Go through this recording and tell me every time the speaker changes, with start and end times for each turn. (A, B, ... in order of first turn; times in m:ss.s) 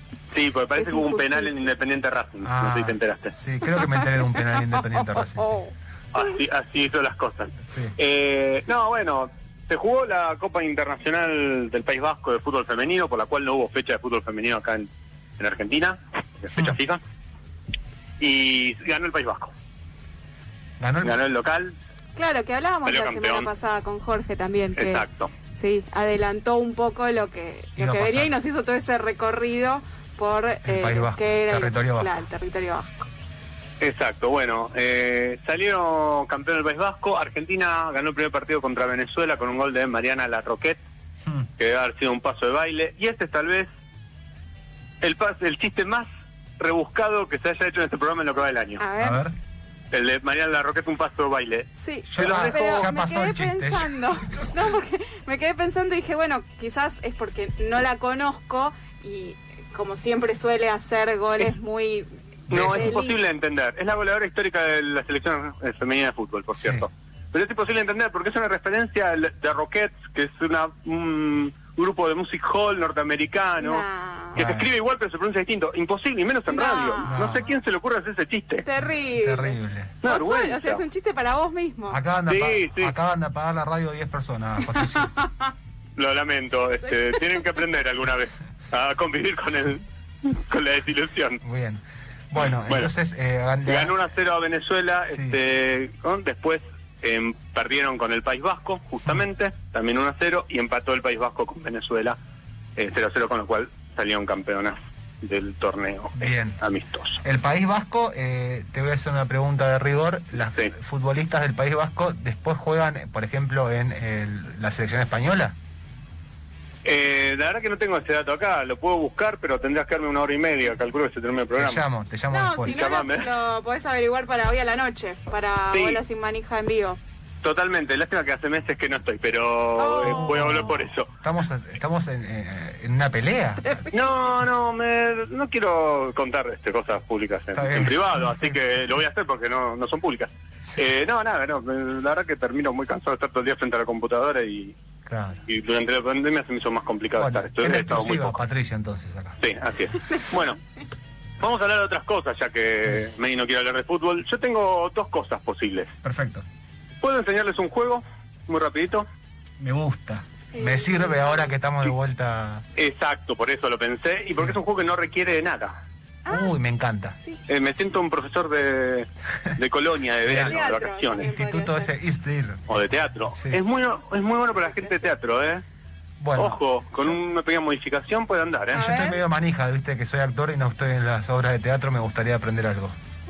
0:00.3-0:03.3 A
0:00.8-0:01.7 B
0:02.4-0:05.6 C
0:03.7-0:04.2 B
0:04.8-0:06.2 B
0:06.1-0:17.0 A
0:07.7-0:07.9 C
0:18.2-0:19.5 A
0:20.8-0:21.2 C
0:21.0-0:21.8 A
0:22.2-0:32.9 B
0:22.8-0:23.5 A
0:24.8-0:25.3 A
0:27.8-0:28.3 C
0:30.6-0:32.1 C
0:33.8-0:40.8 A
0:41.6-0:43.7 A
0:45.0-0:46.1 A
0:46.6-0:48.8 A
0:48.8-0:49.2 B
0:49.0-0:49.3 C
0:49.9-0:52.9 A
0:51.8-1:02.1 B
0:52.1-0:54.6 C
1:02.5-1:18.7 A
1:02.5-1:03.0 C
1:02.7-1:03.2 B
1:06.5-1:06.9 C
1:13.6-1:14.4 B
1:14.3-1:14.7 C
1:16.5-1:17.2 B
1:17.1-1:17.5 C
1:18.6-1:22.0 B
1:19.1-1:20.0 C
1:20.0-1:20.8 A
1:21.9-1:25.1 C
1:22.3-1:22.9 A
1:24.7-1:25.5 B
1:26.0-1:31.4 A
1:31.4-1:34.0 C
1:32.4-1:32.9 A
1:33.6-1:42.2 A
1:35.1-1:35.4 C
1:42.8-1:47.2 A
1:46.2-1:46.6 C
1:47.2-1:55.5 C
1:56.8-2:01.8 A
2:01.6-2:02.8 C
2:02.3-2:07.0 B
2:02.7-2:03.3 A
2:05.7-2:06.0 A
2:07.4-2:11.1 A
2:09.8-2:10.7 B
2:10.0-2:13.9 C
2:13.9-2:24.8 A
2:17.5-2:18.6 C
2:25.1-2:25.4 C
2:25.5-2:28.4 A
2:27.2-2:29.4 C
2:29.4-2:30.6 A
2:31.4-2:35.9 A
2:36.0-2:36.4 C
2:37.0-2:39.1 A
2:39.6-2:42.6 C
2:40.5-2:41.6 B
2:42.8-2:45.8 A
2:46.2-2:46.5 B
2:46.3-2:47.2 C
2:47.5-2:51.3 A
2:50.3-2:50.6 C
2:50.3-2:51.9 B
2:51.2-2:52.7 C
2:52.7-2:55.6 A
2:53.3-2:53.6 C
2:56.2-2:57.2 C
2:56.3-2:58.8 A
2:58.7-2:59.2 B
2:58.7-3:02.9 C